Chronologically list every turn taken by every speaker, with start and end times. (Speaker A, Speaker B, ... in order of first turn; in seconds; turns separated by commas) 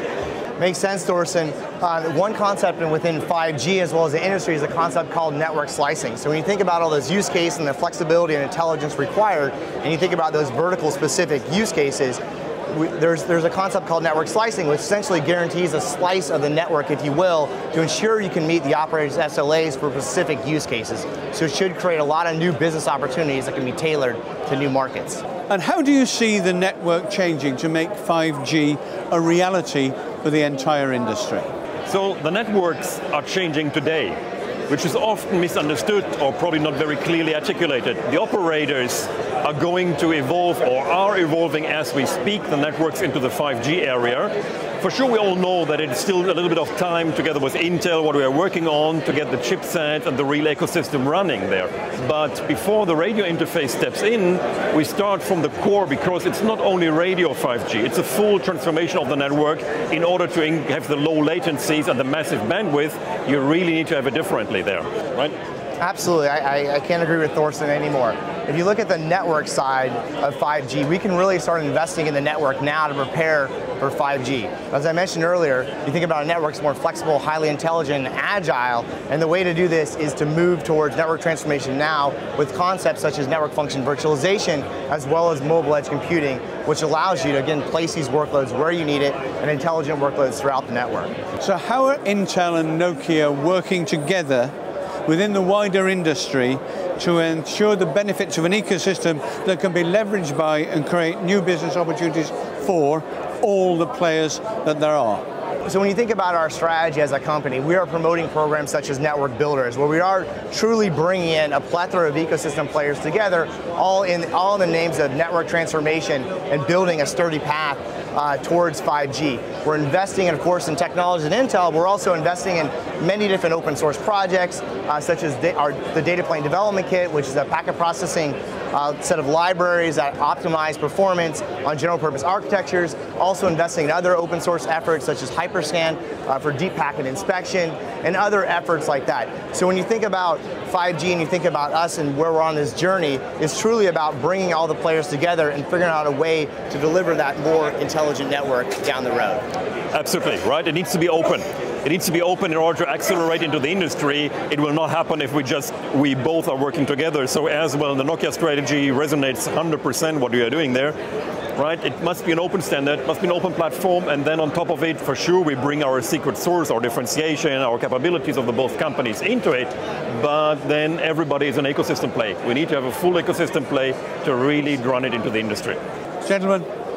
Speaker A: 0.6-25.2, Speaker B: 25.5-31.5, Speaker C: 31.9-34.1, Speaker C: 34.7-65.3, Speaker A: 65.8-91.1, Speaker B: 91.4-94.5, Speaker B: 95.0-105.2, Speaker A: 105.6-149.4, Speaker C: 149.9-160.9, Speaker C: 161.6-175.8, Speaker B: 176.2-176.7